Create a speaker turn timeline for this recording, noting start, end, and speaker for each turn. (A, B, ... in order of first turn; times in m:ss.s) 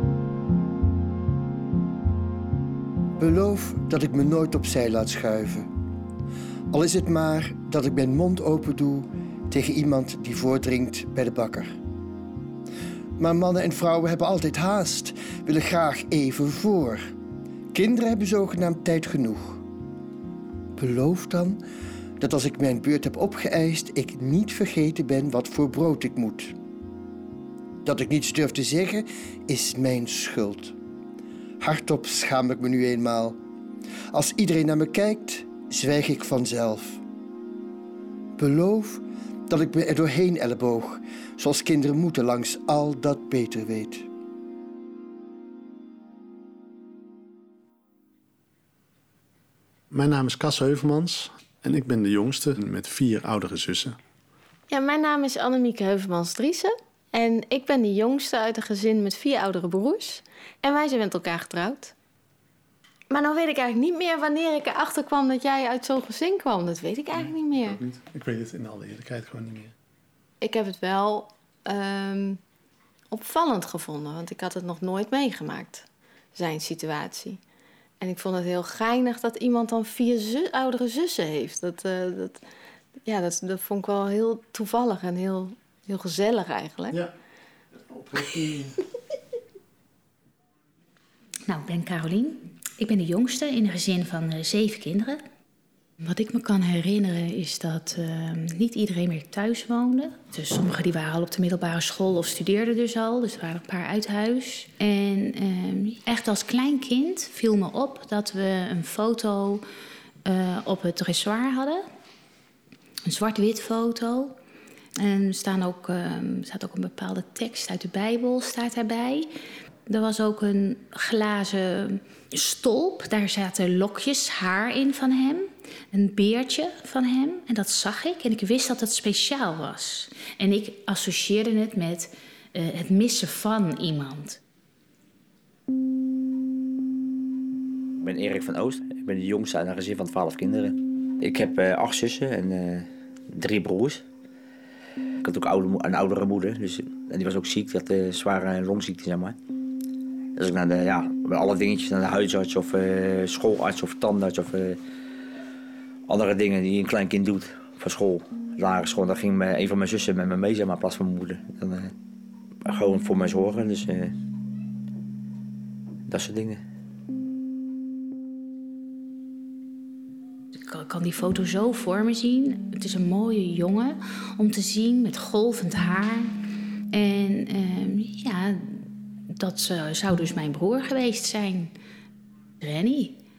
0:03.2-0:05.7 A
0:06.7-0:11.7 A
0:13.2-0:17.0 A
0:17.7-0:19.6 A
0:20.8-0:21.6 A
0:22.2-0:26.5 A
0:27.8-0:30.8 A
0:31.6-0:33.4 A
0:34.1-0:37.0 A
0:38.4-0:44.1 A
0:49.9-0:54.0 B
0:54.7-1:01.9 C
1:03.1-1:07.8 C
1:07.7-1:09.7 B
1:10.4-1:12.4 C
1:13.1-1:17.4 C
1:18.0-1:22.4 C
1:23.0-1:27.0 C
1:27.9-1:28.8 B
1:31.5-1:35.2 D
1:36.0-1:49.6 D
1:50.2-1:51.8 D
1:53.0-1:54.4 D
1:55.0-1:59.3 D
1:59.9-2:14.4 D
2:18.0-2:24.0 E
2:25.2-2:29.4 E
2:30.4-2:34.8 E
2:36.1-2:41.9 E
2:42.7-2:44.1 E
2:46.1-2:46.6 E
2:50.7-2:56.3 D
2:56.9-3:01.7 D
3:02.6-3:03.2 D